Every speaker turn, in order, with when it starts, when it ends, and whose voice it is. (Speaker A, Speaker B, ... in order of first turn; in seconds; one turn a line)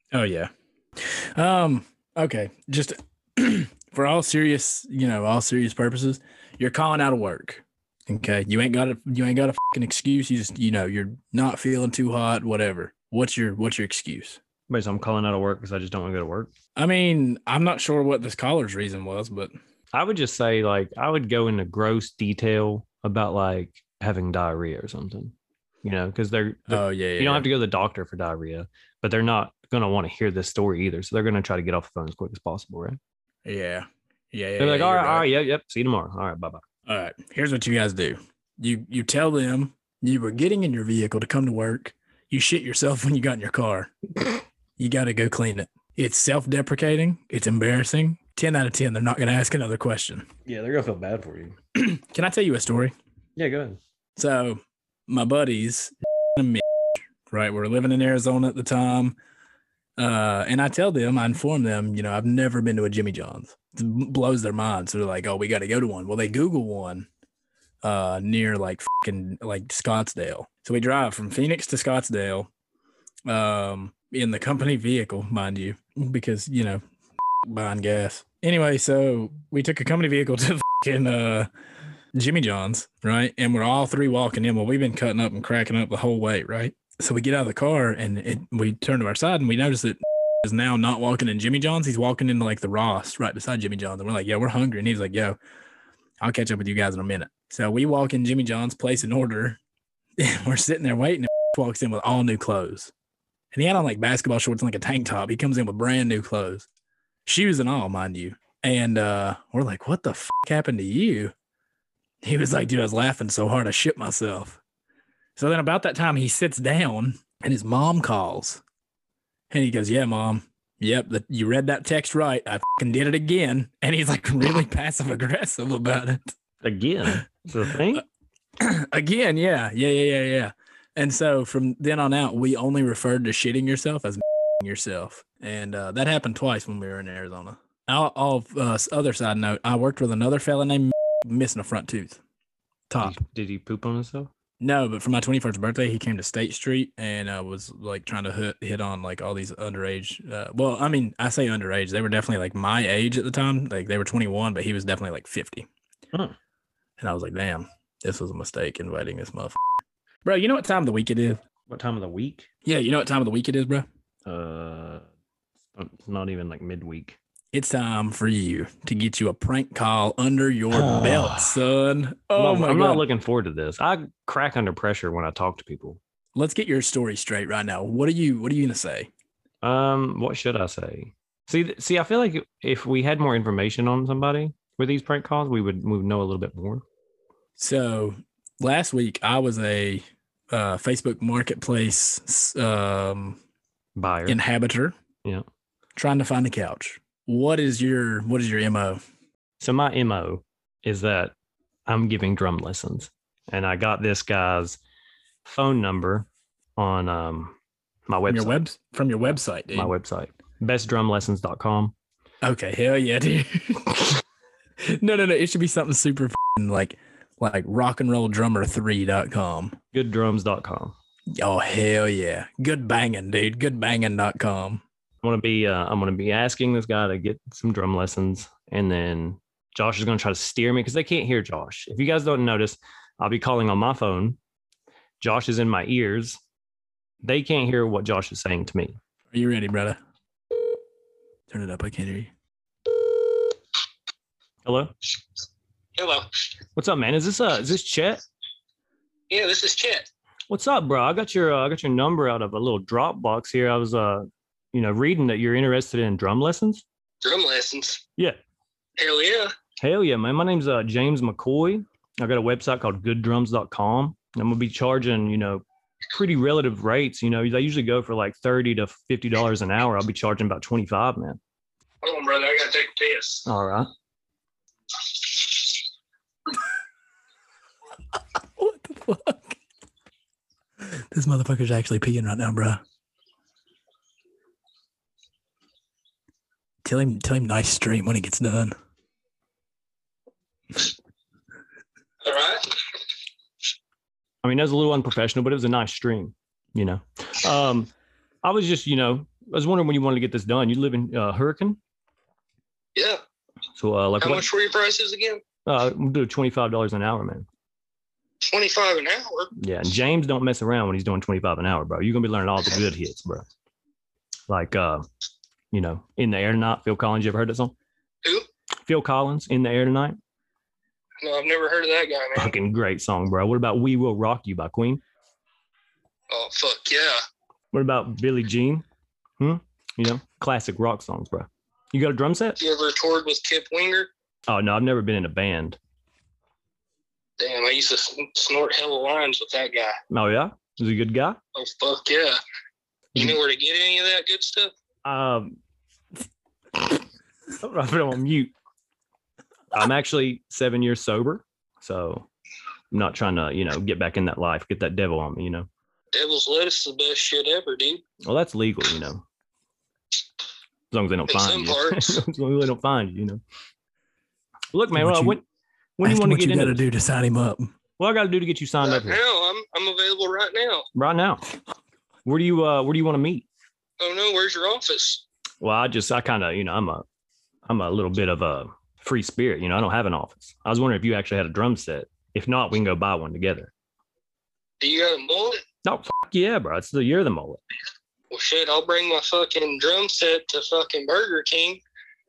Speaker A: 0.1-14.4
Speaker B: 14.7-16.5
Speaker A: 16.8-19.5
Speaker B: 19.9-33.0
Speaker A: 26.7-27.5
Speaker A: 33.4-35.3
Speaker B: 34.6-36.6
Speaker A: 36.9-43.9
Speaker A: 44.8-50.3
Speaker B: 50.5-51.6
Speaker A: 51.8-52.9
Speaker B: 53.4-53.8
Speaker A: 54.1-56.6
Speaker A: 57.3-59.1
Speaker A: 60.0-67.1
Speaker A: 67.8-72.5
Speaker A: 73.3-76.8
Speaker A: 77.4-81.5
Speaker A: 82.1-95.4
Speaker A: 96.2-99.6
Speaker A: 100.2-102.9
Speaker A: 103.5-106.7
Speaker A: 107.3-111.3
Speaker A: 112.2-114.6
Speaker A: 115.4-118.6
Speaker A: 119.5-126.3
Speaker B: 126.6-128.0
Speaker A: 128.6-142.2
Speaker A: 142.9-143.2
Speaker B: 143.0-144.3
Speaker A: 144.6-155.7
Speaker A: 157.0-159.6
Speaker A: 160.2-161.4
Speaker B: 161.7-162.5
Speaker A: 162.6-163.9
Speaker B: 164.2-165.1
Speaker B: 165.7-167.2
Speaker A: 167.5-173.1
Speaker B: 170.7-171.6
Speaker B: 172.3-176.0
Speaker A: 176.3-179.1
Speaker B: 179.6-186.8
Speaker A: 187.6-193.4
Speaker B: 193.9-194.4
Speaker A: 194.3-194.9
Speaker A: 195.9-199.0
Speaker B: 199.6-201.3
Speaker B: 201.9-204.8
Speaker B: 205.4-207.6
Speaker B: 208.1-208.6
Speaker A: 208.3-209.9
Speaker B: 209.7-211.9
Speaker A: 212.4-214.2
Speaker A: 214.8-219.8
Speaker B: 219.9-220.9
Speaker A: 221.4-224.8
Speaker B: 225.2-234.4
Speaker B: 235.2-236.4
Speaker B: 237.2-239.0
Speaker A: 239.3-240.0
Speaker A: 241.5-242.3
Speaker B: 244.6-244.9
Speaker C: 245.9-246.3
Speaker B: 246.8-248.2
Speaker C: 249.3-250.1
Speaker B: 250.5-256.8
Speaker C: 257.2-258.0
Speaker C: 259.0-259.5
Speaker B: 259.8-271.4
Speaker C: 272.0-273.4
Speaker B: 273.4-273.9
Speaker C: 275.2-275.7
Speaker A: 278.6-279.6
Speaker A: 280.8-282.8
Speaker A: 286.8-288.8
Speaker C: 292.2-292.8
Speaker B: 294.4-297.9
Speaker B: 298.4-301.8
Speaker C: 302.9-303.2
Speaker B: 303.8-304.5
Speaker C: 304.2-305.4
Speaker B: 305.6-307.5
Speaker C: 308.4-309.5
Speaker B: 309.6-313.4
Speaker B: 314.5-315.1
Speaker B: 315.7-317.7
Speaker B: 318.9-320.2
Speaker C: 321.2-322.6
Speaker B: 322.4-325.0
Speaker C: 326.3-327.2
Speaker B: 327.7-328.9
Speaker B: 329.4-332.6
Speaker C: 332.6-334.1
Speaker B: 334.5-335.8
Speaker C: 337.4-340.0
Speaker B: 340.1-341.4
Speaker C: 341.6-342.4
Speaker C: 343.1-344.7
Speaker B: 345.1-345.6
Speaker B: 347.6-348.5
Speaker B: 349.7-352.3
Speaker B: 352.9-355.7
Speaker C: 356.1-358.0
Speaker B: 358.2-359.2
Speaker B: 360.9-363.4
Speaker C: 361.3-362.2
Speaker B: 364.7-365.4
Speaker A: 364.9-365.4
Speaker B: 366.0-366.8
Speaker A: 366.0-367.7
Speaker B: 368.0-369.2
Speaker C: 368.8-370.9
Speaker B: 370.9-371.4
Speaker B: 372.2-373.5
Speaker C: 374.0-375.2
Speaker B: 375.6-377.1
Speaker B: 377.6-383.7
Speaker C: 384.8-385.6
Speaker B: 385.9-387.6
Speaker C: 388.3-391.8